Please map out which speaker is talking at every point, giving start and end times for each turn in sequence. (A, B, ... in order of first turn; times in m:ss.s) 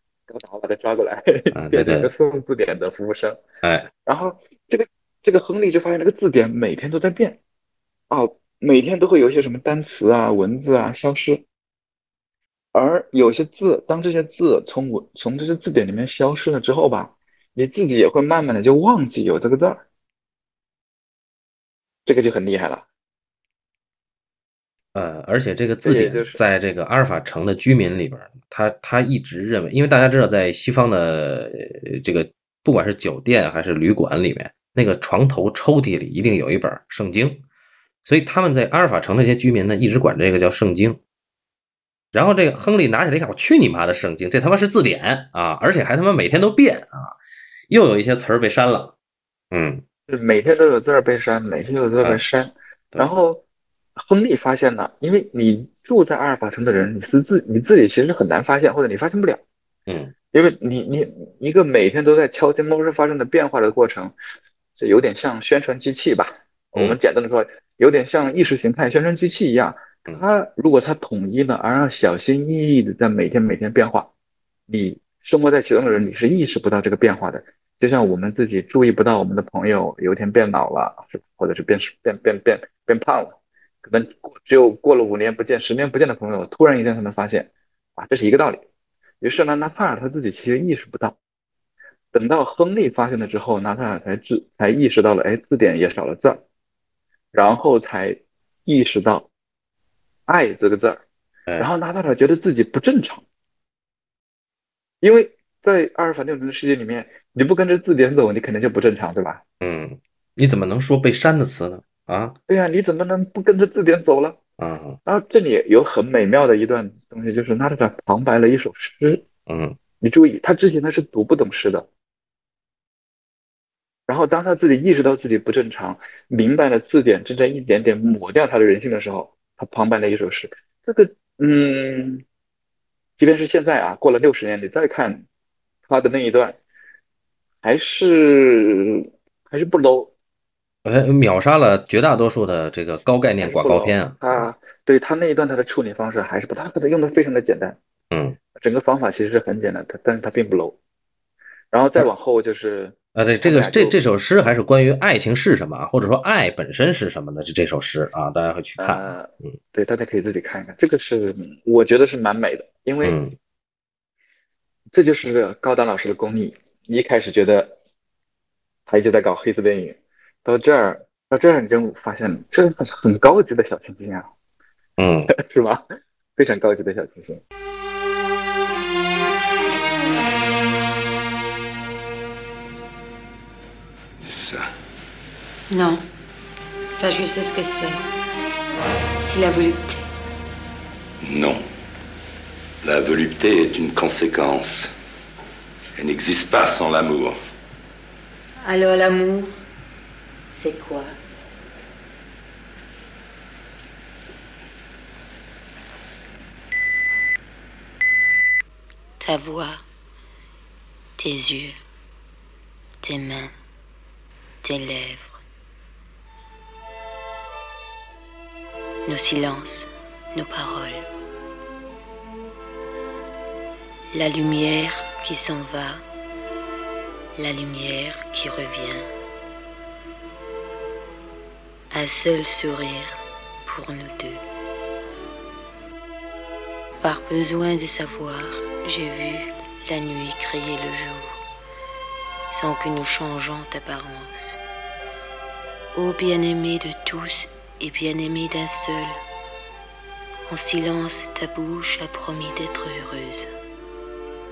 0:00.3-0:03.4 A
0:01.5-0:02.1 B
0:03.6-0:03.9 B
0:04.0-0:07.4 A
0:08.1-0:11.4 A
0:12.7-0:19.8 A
0:22.0-0:22.8 A
0:24.9-0:37.4 B
0:25.8-0:26.4 A
0:38.0-0:41.0 B
0:42.1-0:47.1 B
0:47.7-0:48.9 B
0:49.5-0:49.8 B
0:50.1-0:53.4 A
0:54.0-0:59.4 A
0:59.9-1:00.1 B
1:00.3-1:04.1 A
1:04.8-1:14.1 A
1:14.7-1:28.6 A
1:29.2-1:31.2 A
1:32.1-1:36.4 A
1:37.3-1:39.3 A
1:40.3-1:41.0 A
1:41.6-1:43.2 A
1:45.0-1:49.4 A
1:49.6-1:52.4 B
1:52.5-1:54.4 A
1:54.6-1:55.0 B
1:55.0-1:59.2 A
1:59.5-1:59.8 B
2:00.0-2:01.9 A
2:04.1-2:12.2 A
2:13.2-2:15.2 A
2:15.9-2:16.6 A
2:17.6-2:20.1 A
2:20.8-2:24.4 B
2:23.4-2:27.8 A
2:28.1-2:28.4 B
2:28.6-2:30.8 A
2:31.7-2:34.0 A
2:33.1-2:39.5 B
2:38.8-2:43.2 A
2:43.0-2:43.4 B
2:44.9-2:47.7 A
2:48.9-2:54.3 A
2:55.0-2:55.3 B
2:55.3-2:55.8 A
2:56.4-2:57.4 A
3:04.2-3:04.6 C
3:05.7-3:06.0 D
3:06.9-3:08.0 D
3:09.2-3:10.0 D
3:11.2-3:11.6 C
3:12.8-3:14.9 C
3:16.0-3:17.3 C
3:18.6-3:19.6 D
3:20.5-3:21.1 D
3:29.2-3:29.8 D
3:31.2-3:31.8 D
3:33.0-3:33.5 D
3:34.6-3:35.4 D
3:39.0-3:41.1 D
3:44.1-3:46.0 D
3:47.4-3:49.1 D
3:51.9-3:54.4 D
3:57.0-4:01.4 D
4:02.5-4:04.6 D
4:05.9-4:09.2 D
4:10.5-4:13.5 D